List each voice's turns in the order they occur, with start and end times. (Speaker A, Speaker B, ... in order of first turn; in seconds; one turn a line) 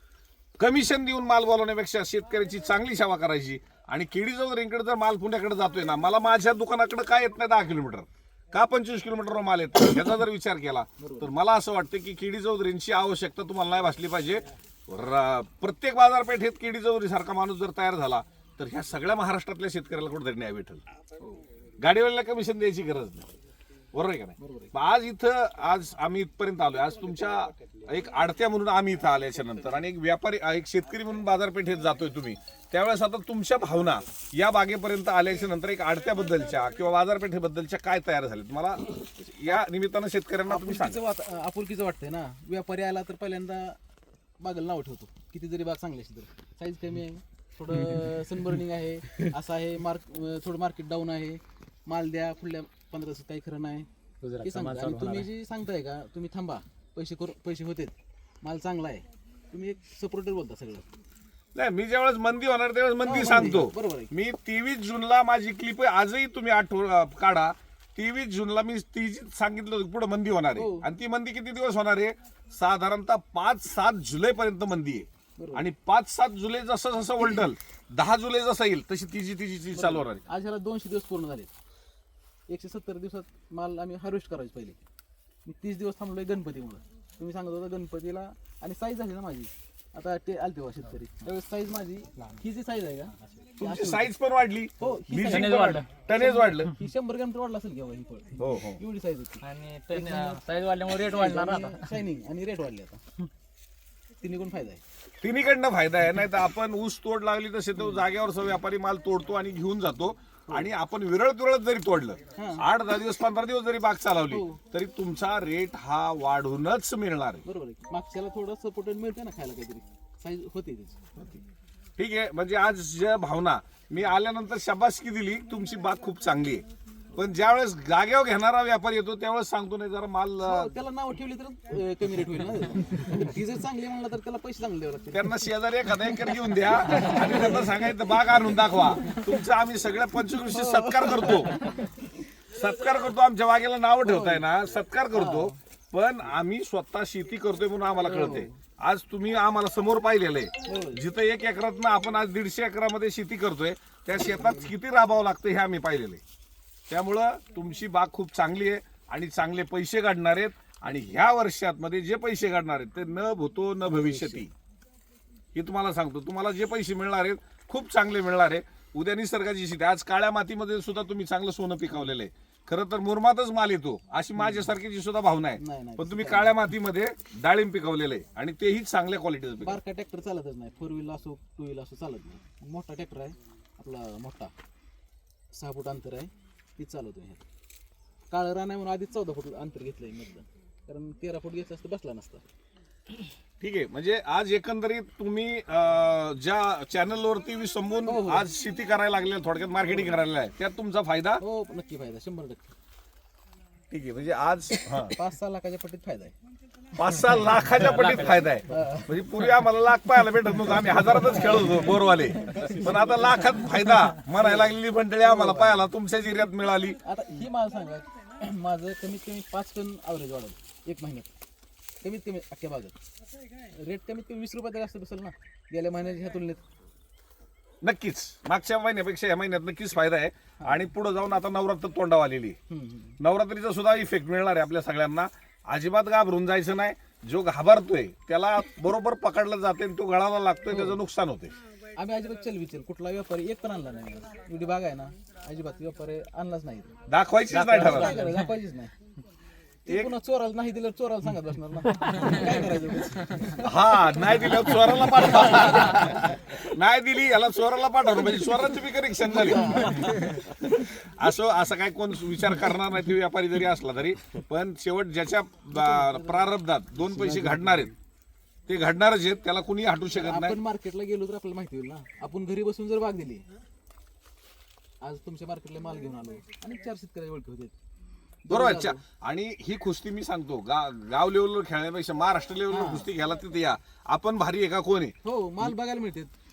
Speaker A: 0.6-20.8
Speaker B: 11.0-11.3
Speaker B: 21.2-21.5
Speaker A: 21.8-23.3
Speaker A: 23.9-41.0
Speaker B: 24.4-24.7
Speaker B: 40.5-43.8
Speaker B: 44.4-53.9
Speaker C: 54.2-55.3
Speaker B: 54.4-60.9
Speaker A: 61.5-80.2
Speaker B: 63.0-64.1
Speaker B: 70.6-70.9
Speaker B: 75.4-75.7
Speaker B: 79.7-81.5
Speaker B: 82.5-84.8
Speaker B: 85.5-94.1
Speaker A: 93.6-96.7
Speaker B: 94.8-100.4
Speaker C: 95.2-95.9
Speaker A: 98.4-98.8
Speaker C: 99.4-101.9
Speaker B: 101.0-103.0
Speaker B: 104.2-104.8
Speaker A: 105.2-117.4
Speaker B: 112.3-112.7
Speaker B: 114.3-114.6
Speaker B: 117.4-121.1
Speaker A: 122.0-130.7
Speaker B: 130.4-135.3
Speaker A: 135.1-141.6
Speaker B: 136.9-137.6
Speaker B: 140.5-141.9
Speaker A: 142.5-156.2
Speaker B: 144.0-144.4
Speaker B: 145.1-145.5
Speaker B: 148.0-148.6
Speaker B: 150.7-151.0
Speaker B: 154.4-154.7
Speaker A: 156.9-164.5
Speaker B: 163.9-164.4
Speaker A: 165.6-179.8
Speaker B: 174.4-174.7
Speaker B: 175.6-176.6
Speaker B: 179.6-184.5
Speaker B: 185.5-187.4
Speaker B: 188.3-192.4
Speaker A: 193.6-201.4
Speaker B: 198.1-198.5
Speaker B: 201.4-202.7
Speaker A: 203.9-205.2
Speaker B: 205.1-206.3
Speaker A: 206.9-217.0
Speaker C: 207.8-208.4
Speaker B: 208.7-209.3
Speaker B: 211.2-215.9
Speaker B: 217.0-221.3
Speaker B: 222.0-223.0
Speaker B: 223.6-226.6
Speaker A: 227.8-232.6
Speaker B: 232.7-233.2
Speaker A: 233.2-241.5
Speaker B: 240.7-241.0
Speaker B: 241.9-247.0
Speaker A: 247.1-248.2
Speaker B: 247.5-248.9
Speaker C: 247.7-248.4
Speaker B: 249.9-253.7
Speaker A: 253.6-267.9
Speaker B: 259.2-260.9
Speaker B: 265.8-266.6
Speaker B: 267.1-267.9
Speaker A: 268.7-270.6
Speaker B: 270.2-273.4
Speaker B: 275.0-277.8
Speaker B: 278.5-279.0
Speaker A: 278.5-285.7
Speaker B: 282.7-283.1
Speaker B: 285.2-286.3